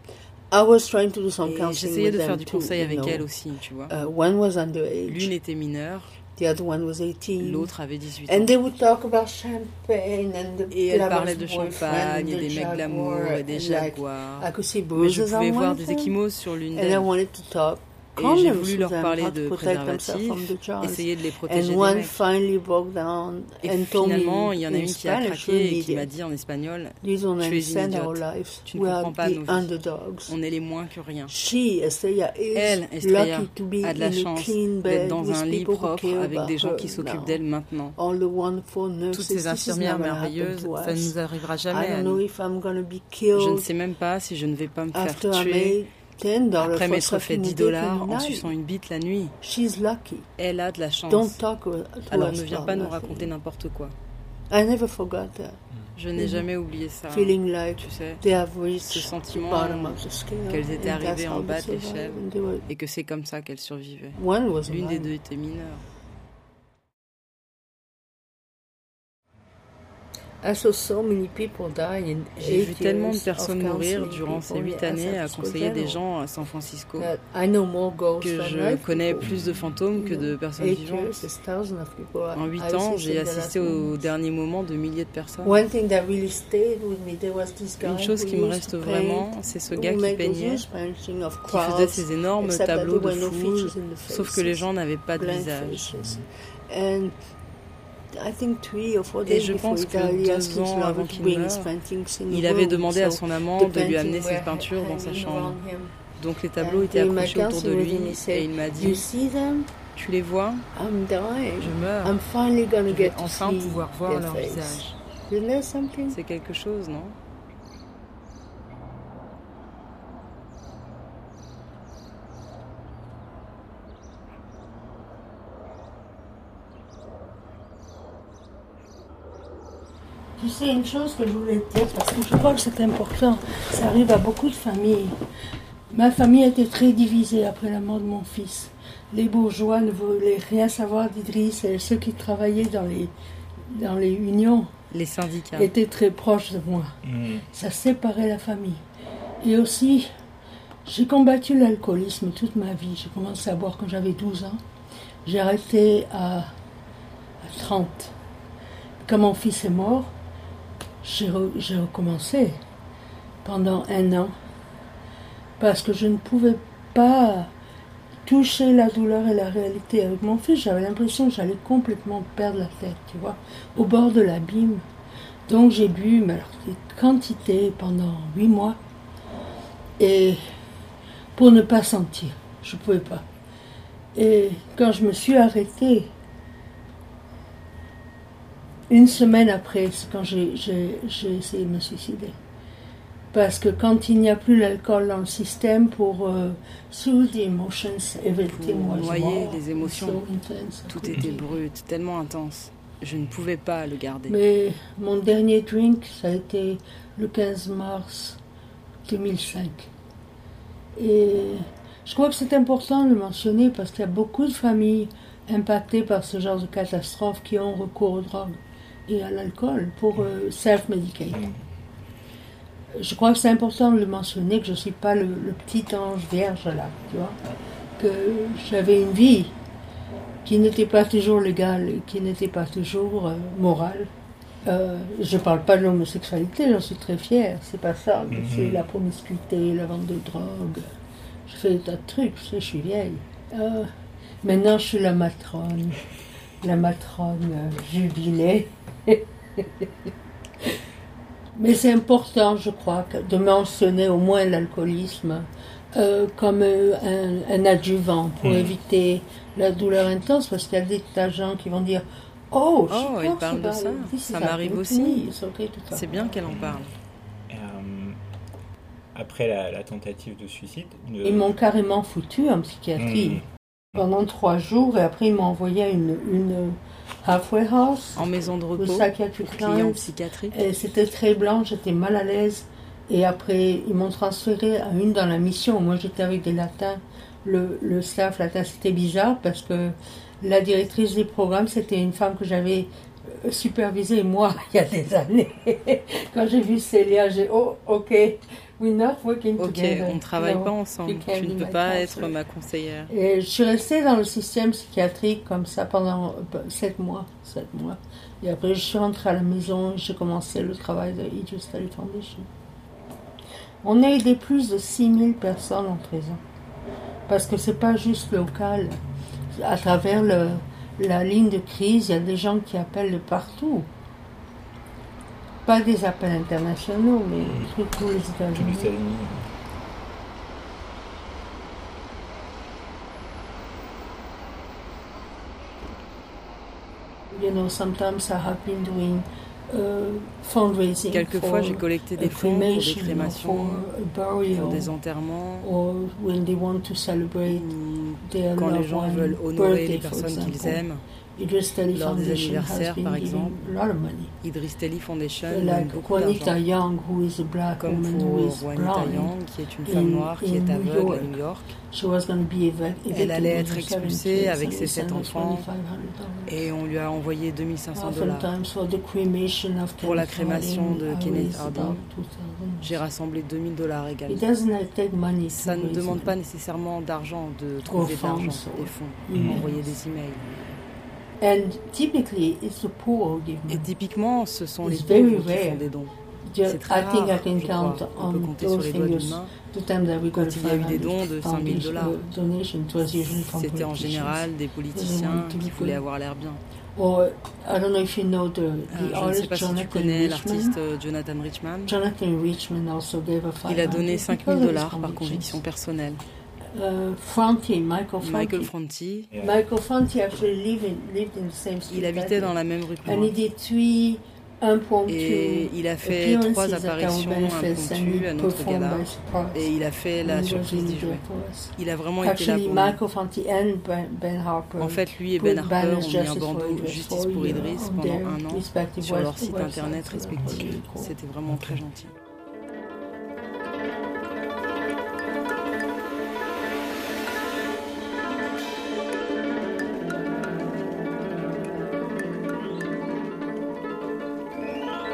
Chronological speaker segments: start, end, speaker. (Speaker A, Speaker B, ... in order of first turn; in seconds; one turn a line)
Speaker A: 0.5-3.2
Speaker B: 1.4-3.9
Speaker A: 3.9-5.3
Speaker B: 5.1-6.1
Speaker A: 6.3-7.7
Speaker B: 7.4-8.5
Speaker A: 8.3-16.1
Speaker B: 10.7-17.1
Speaker A: 16.7-26.1
Speaker B: 18.1-22.2
Speaker B: 23.6-29.7
Speaker A: 27.0-30.3
Speaker B: 30.3-31.3
Speaker A: 31.3-37.4
Speaker B: 32.5-38.0
Speaker A: 38.0-41.1
Speaker B: 39.1-42.2
Speaker A: 41.7-43.7
Speaker B: 43.3-45.8
Speaker A: 44.9-48.5
Speaker B: 46.6-49.4
Speaker A: 49.4-50.3
Speaker B: 50.4-51.4
Speaker A: 51.1-53.3
Speaker B: 52.1-53.9
Speaker A: 54.5-55.6
Speaker B: 56.0-58.2
Speaker A: 56.1-56.5
Speaker A: 57.1-62.7
Speaker B: 58.9-65.8
Speaker A: 64.2-65.1
Speaker A: 70.4-76.0
Speaker B: 72.4-77.1
Speaker A: 77.0-79.3
Speaker B: 78.2-81.2
Speaker C: 79.2-79.6
Speaker A: 79.9-84.0
Speaker B: 82.3-85.6
Speaker A: 85.4-97.1
Speaker B: 87.8-90.6
Speaker B: 91.5-95.9
Speaker A: 98.1-105.9
Speaker B: 99.3-101.7
Speaker B: 102.3-105.6
Speaker B: 106.2-109.0
Speaker A: 106.6-109.7
Speaker B: 109.9-110.7
Speaker A: 110.7-116.2
Speaker B: 111.6-112.2
Speaker B: 112.9-115.0
Speaker B: 116.1-117.2
Speaker A: 130.4-135.2
Speaker A: 135.9-143.1
Speaker A: 143.7-144.7
Speaker B: 144.9-145.7
Speaker A: 145.5-146.9
Speaker C: 147.0-147.4
Speaker A: 147.5-148.8
Speaker A: 149.4-150.1
Speaker A: 150.8-154.6
Speaker A: 155.2-156.5
Speaker A: 157.4-158.1
Speaker A: 159.0-160.1
Speaker A: 161.0-162.6
Speaker A: 163.4-164.3
Speaker A: 165.6-167.5
Speaker A: 168.2-174.8
Speaker A: 175.5-178.8
Speaker A: 180.0-180.4
Speaker A: 181.3-183.2
Speaker A: 184.1-186.1
Speaker A: 188.9-192.3
Speaker A: 193.3-201.5
Speaker B: 198.6-200.2
Speaker B: 200.9-204.4
Speaker A: 204.3-208.4
Speaker A: 209.1-209.9
Speaker A: 210.9-221.5
Speaker C: 221.3-221.6
Speaker A: 222.9-227.3
Speaker A: 228.0-229.5
Speaker A: 230.4-234.1
Speaker A: 234.6-240.9
Speaker C: 238.3-238.9
Speaker A: 241.4-243.9
Speaker A: 244.4-246.0
Speaker A: 246.6-249.9
Speaker A: 251.6-266.3
Speaker C: 258.4-258.8
Speaker B: 262.9-265.2
Speaker B: 265.9-266.9
Speaker C: 266.4-266.8
Speaker C: 267.5-268.2
Speaker C: 269.1-271.5
Speaker A: 271.2-273.4
Speaker C: 273.0-273.4
Speaker A: 273.9-302.3
Speaker B: 278.1-280.6
Speaker B: 299.6-303.1
Speaker A: 303.1-312.5
Speaker A: 313.8-316.4
Speaker A: 317.3-319.0
Speaker A: 319.5-323.9
Speaker A: 325.6-328.9
Speaker C: 328.5-329.4
Speaker A: 337.3-344.9
Speaker B: 341.1-343.9
Speaker B: 344.5-345.7
Speaker A: 345.6-347.7
Speaker B: 347.5-351.0
Speaker A: 348.2-350.8
Speaker A: 351.4-354.3
Speaker B: 351.9-353.6
Speaker B: 354.4-356.5
Speaker A: 355.5-359.3
Speaker B: 357.8-361.7
Speaker A: 359.9-361.4
Speaker A: 361.9-366.6
Speaker B: 363.1-365.7
Speaker B: 366.5-368.5
Speaker A: 367.9-373.0
Speaker B: 370.0-372.0
Speaker B: 372.8-374.4
Speaker A: 374.3-376.3
Speaker B: 375.5-380.6
Speaker A: 377.9-379.9
Speaker C: 379.3-379.6
Speaker A: 381.4-383.9
Speaker B: 383.7-386.1
Speaker A: 384.8-385.9
Speaker A: 386.5-396.0
Speaker B: 386.6-389.5
Speaker B: 390.3-392.2
Speaker B: 393.4-396.6
Speaker A: 396.9-400.8
Speaker B: 398.9-401.9
Speaker A: 401.9-405.6
Speaker B: 403.6-406.2
Speaker A: 406.7-408.7
Speaker B: 408.2-409.3
Speaker C: 409.3-409.6
Speaker A: 409.4-419.7
Speaker B: 411.9-413.3
Speaker B: 415.1-421.2
Speaker A: 420.2-431.1
Speaker B: 421.8-423.0
Speaker B: 424.8-432.1
Speaker C: 430.4-430.7
Speaker C: 431.4-431.8